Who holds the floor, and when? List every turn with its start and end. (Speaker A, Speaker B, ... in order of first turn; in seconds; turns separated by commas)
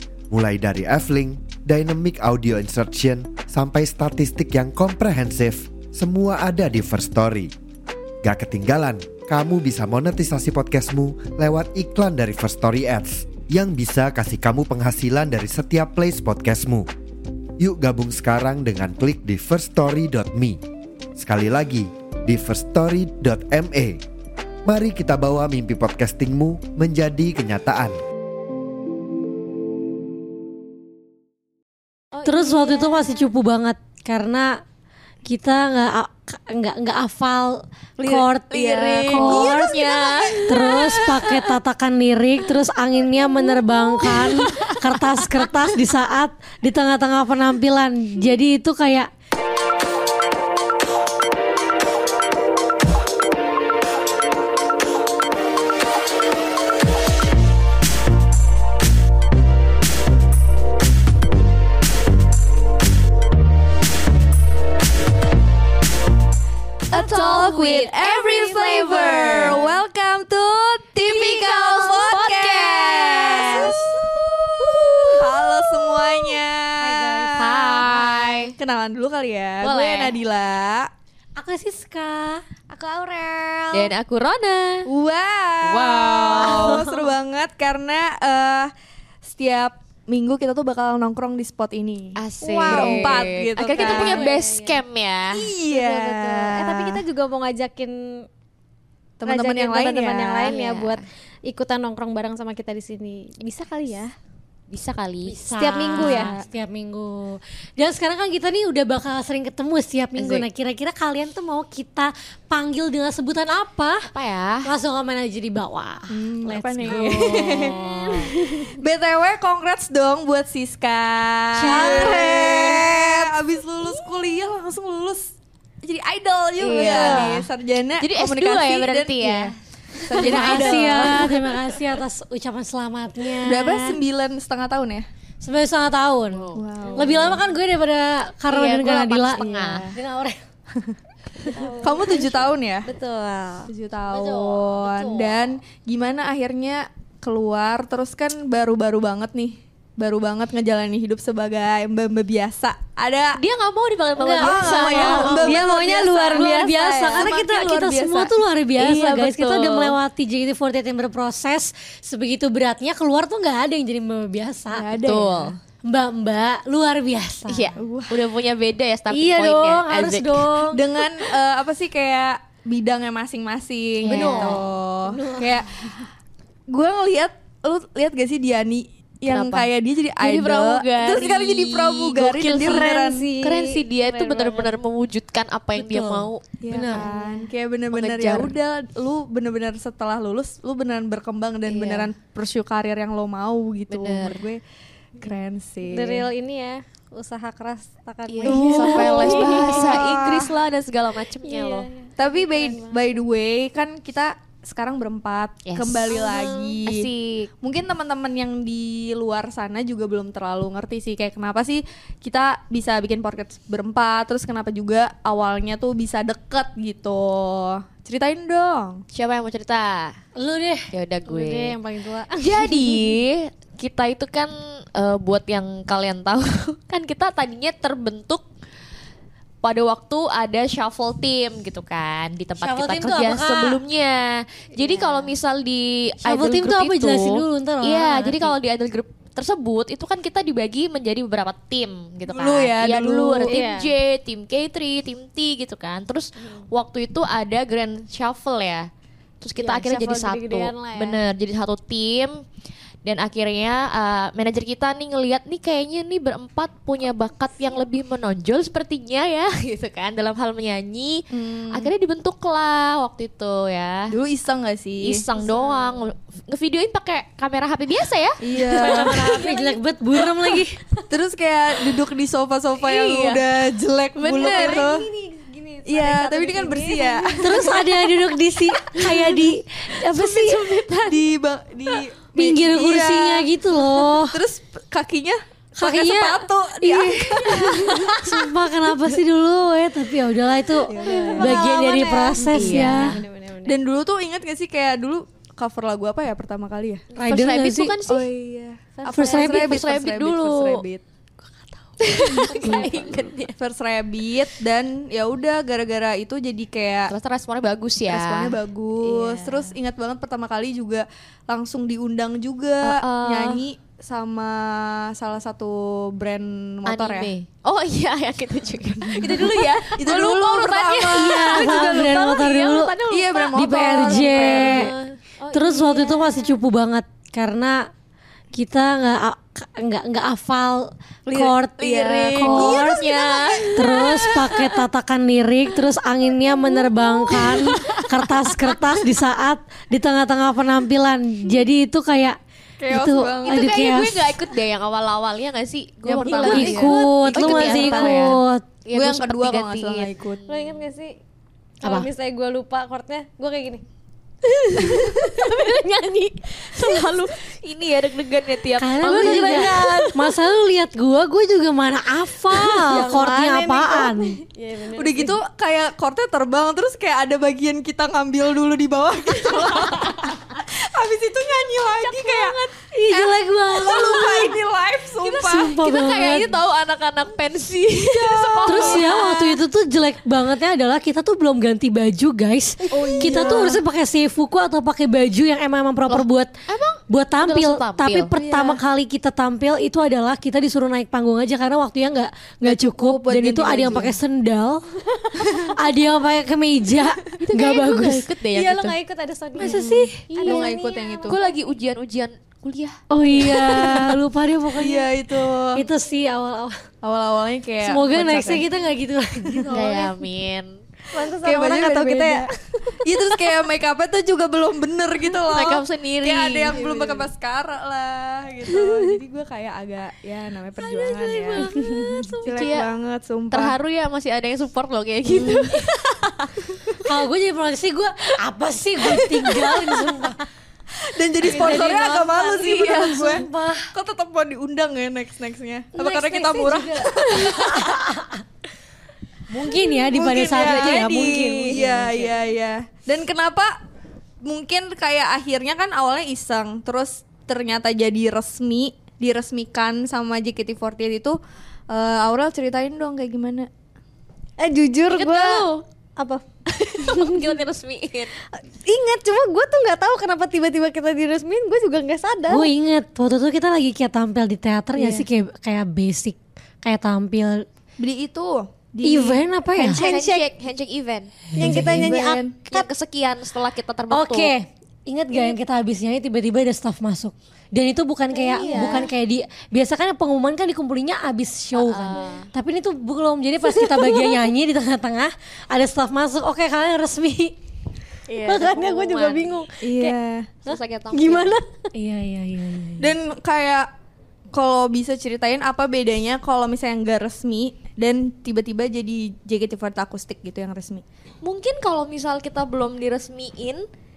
Speaker A: 0.3-7.5, Speaker A: 8.2-16.9, Speaker A: 17.6-20.6, Speaker A: 21.2-24.0, Speaker A: 24.6-28.0, Speaker B: 32.1-33.2, Speaker C: 32.2-34.6, Speaker C: 35.3-39.8, Speaker D: 38.0-40.5, Speaker E: 39.0-41.2, Speaker C: 40.5-49.1, Speaker E: 66.9-74.0, Speaker D: 66.9-69.6, Speaker B: 68.3-69.7, Speaker D: 71.0-73.8, Speaker C: 73.5-73.8, Speaker E: 74.8-80.9, Speaker C: 76.8-77.9, Speaker D: 77.5-78.5, Speaker D: 79.6-80.2, Speaker C: 81.4-82.4, Speaker B: 82.7-83.9, Speaker D: 83.7-84.9, Speaker E: 84.9-88.7, Speaker D: 85.6-86.9, Speaker B: 86.4-87.1, Speaker E: 89.2-94.3, Speaker D: 92.2-95.5, Speaker B: 92.4-94.8, Speaker E: 95.3-97.0, Speaker B: 95.7-98.2, Speaker E: 99.2-100.5, Speaker B: 99.2-104.1, Speaker D: 100.5-101.0, Speaker D: 104.7-105.4, Speaker C: 105.2-114.1, Speaker B: 105.5-106.4, Speaker D: 106.0-106.3, Speaker D: 110.2-110.5, Speaker D: 114.1-114.7, Speaker C: 114.7-118.3, Speaker E: 116.1-117.7, Speaker B: 117.3-118.7, Speaker E: 118.4-125.3, Speaker C: 121.5-123.0, Speaker B: 121.8-122.9, Speaker E: 125.8-131.4, Speaker D: 126.6-127.5, Speaker C: 126.7-127.4, Speaker D: 128.0-129.6, Speaker D: 130.1-131.2, Speaker C: 130.2-134.0, Speaker E: 133.4-135.1, Speaker C: 135.4-140.4, Speaker D: 136.3-137.2, Speaker E: 136.6-137.4, Speaker D: 138.5-140.0, Speaker E: 139.4-139.8, Speaker C: 141.5-142.1, Speaker B: 141.5-143.7, Speaker E: 141.8-142.9, Speaker E: 143.7-153.4, Speaker C: 144.1-145.4, Speaker D: 153.4-157.3, Speaker C: 154.2-164.9, Speaker E: 154.4-158.3, Speaker B: 155.7-156.7, Speaker D: 158.8-160.0, Speaker E: 164.7-165.6, Speaker D: 165.0-165.6, Speaker C: 165.8-167.7, Speaker D: 167.5-170.6, Speaker E: 167.8-168.2, Speaker C: 169.1-171.1, Speaker E: 170.7-176.1, Speaker D: 174.0-175.6, Speaker C: 174.1-174.6, Speaker E: 176.7-183.3, Speaker D: 179.3-179.7, Speaker D: 180.2-182.9, Speaker B: 182.6-184.7, Speaker D: 183.4-186.4, Speaker C: 185.7-187.1, Speaker E: 186.6-194.6, Speaker B: 187.0-187.5, Speaker D: 187.9-188.5, Speaker D: 191.7-192.1, Speaker D: 193.9-194.5, Speaker E: 195.2-196.3, Speaker B: 195.9-200.1, Speaker D: 198.3-201.9, Speaker E: 198.5-200.6, Speaker B: 201.4-203.0, Speaker E: 202.2-207.1, Speaker D: 205.7-206.2, Speaker B: 206.1-206.8, Speaker D: 206.9-207.5, Speaker E: 207.6-219.0, Speaker D: 219.1-220.2, Speaker C: 220.4-220.9, Speaker D: 220.9-221.8, Speaker B: 221.3-223.1, Speaker D: 222.4-228.4, Speaker D: 229.6-248.9, Speaker C: 232.6-233.8, Speaker B: 234.8-235.3, Speaker C: 236.2-238.5, Speaker E: 242.3-243.6, Speaker B: 243.4-243.9, Speaker B: 246.4-246.7, Speaker D: 249.4-252.4, Speaker B: 249.6-251.2, Speaker D: 253.0-264.1, Speaker E: 261.3-261.9, Speaker E: 264.1-265.2, Speaker D: 265.0-268.4, Speaker B: 265.4-266.0, Speaker E: 268.4-269.3, Speaker C: 268.6-270.8, Speaker B: 269.0-269.8, Speaker E: 271.1-275.1, Speaker D: 272.8-273.4, Speaker D: 274.2-274.9, Speaker B: 274.4-277.7, Speaker E: 275.9-277.7, Speaker C: 277.4-280.6, Speaker D: 280.0-281.3, Speaker E: 281.1-283.5, Speaker C: 282.4-284.4, Speaker E: 284.2-288.5, Speaker C: 285.8-293.2, Speaker E: 290.9-291.7, Speaker B: 290.9-293.8, Speaker D: 292.4-293.2, Speaker E: 292.5-293.1, Speaker E: 293.6-297.1, Speaker C: 297.2-297.9, Speaker D: 297.2-298.3, Speaker E: 298.1-301.0, Speaker B: 299.0-299.3, Speaker C: 299.1-299.8, Speaker D: 299.2-300.8, Speaker D: 302.0-303.6, Speaker E: 302.2-302.9, Speaker B: 302.5-303.1, Speaker E: 303.6-307.1, Speaker D: 307.1-308.6, Speaker E: 308.1-317.3, Speaker D: 309.2-309.7, Speaker D: 312.8-313.6, Speaker D: 316.9-325.1, Speaker E: 319.1-322.0, Speaker C: 321.1-322.9, Speaker E: 323.1-324.9, Speaker C: 323.6-324.9, Speaker B: 325.4-326.6, Speaker C: 325.5-327.9, Speaker C: 328.5-333.1, Speaker D: 331.3-334.3, Speaker E: 332.4-334.5, Speaker C: 333.7-342.4, Speaker E: 337.3-338.0, Speaker E: 342.8-343.7, Speaker C: 342.9-344.2, Speaker D: 343.4-350.8, Speaker E: 346.0-348.4, Speaker B: 346.3-346.9, Speaker C: 346.4-348.6, Speaker E: 348.9-350.4, Speaker B: 350.5-351.2, Speaker B: 351.8-353.8, Speaker D: 354.5-360.1, Speaker B: 354.8-356.1, Speaker B: 356.8-357.1, Speaker C: 358.8-364.4, Speaker B: 359.0-360.1, Speaker D: 362.6-363.3, Speaker E: 362.9-364.1, Speaker B: 363.8-365.4, Speaker E: 364.9-375.8, Speaker D: 371.8-372.7, Speaker C: 372.9-374.6, Speaker D: 374.1-374.4, Speaker D: 375.2-379.4, Speaker C: 375.3-376.5, Speaker E: 378.0-379.5, Speaker C: 378.7-386.5, Speaker E: 382.9-383.8, Speaker D: 386.1-388.3, Speaker C: 387.1-394.8, Speaker E: 388.4-388.8, Speaker E: 392.6-394.2, Speaker E: 395.4-395.7, Speaker C: 395.8-398.3, Speaker D: 397.4-398.9, Speaker B: 398.5-401.4, Speaker C: 399.6-400.2, Speaker E: 399.6-401.4, Speaker D: 400.3-400.7, Speaker D: 401.3-403.0, Speaker C: 403.1-405.1, Speaker E: 403.4-404.1, Speaker E: 404.8-405.9, Speaker C: 405.7-406.8, Speaker E: 407.0-408.6, Speaker C: 407.8-409.7, Speaker E: 409.5-410.1, Speaker D: 409.7-410.8, Speaker B: 411.1-413.0, Speaker E: 411.2-412.4, Speaker E: 413.0-423.8, Speaker D: 415.5-417.0, Speaker B: 418.9-419.1, Speaker D: 420.8-422.9, Speaker B: 421.5-422.4, Speaker D: 423.5-425.9, Speaker E: 425.3-425.8, Speaker E: 426.7-427.0, Speaker C: 427.0-430.4, Speaker E: 429.1-430.1, Speaker E: 431.0-438.1, Speaker C: 431.5-433.9, Speaker D: 431.6-433.3, Speaker C: 436.0-438.4, Speaker C: 439.5-442.3, Speaker E: 439.9-443.8, Speaker D: 440.6-441.0, Speaker E: 444.4-451.4, Speaker E: 451.9-453.7, Speaker B: 454.6-456.4, Speaker D: 455.1-455.9, Speaker D: 456.7-458.3, Speaker B: 457.1-457.5, Speaker B: 458.5-462.7, Speaker C: 462.5-467.6, Speaker B: 465.0-465.2, Speaker E: 468.0-470.2, Speaker C: 469.0-470.0, Speaker B: 469.8-470.5, Speaker D: 470.0-471.5, Speaker C: 471.6-472.1, Speaker B: 471.6-472.9, Speaker E: 471.6-472.6, Speaker D: 472.7-474.5, Speaker C: 474.1-487.6, Speaker B: 478.3-479.1, Speaker D: 478.7-479.0, Speaker D: 481.8-482.5, Speaker B: 482.1-482.5, Speaker B: 483.7-484.5, Speaker D: 488.3-489.6, Speaker B: 488.3-491.9, Speaker E: 489.8-490.5, Speaker D: 490.7-491.5, Speaker C: 491.9-493.1, Speaker E: 493.0-493.9, Speaker E: 494.5-501.0, Speaker D: 501.4-503.9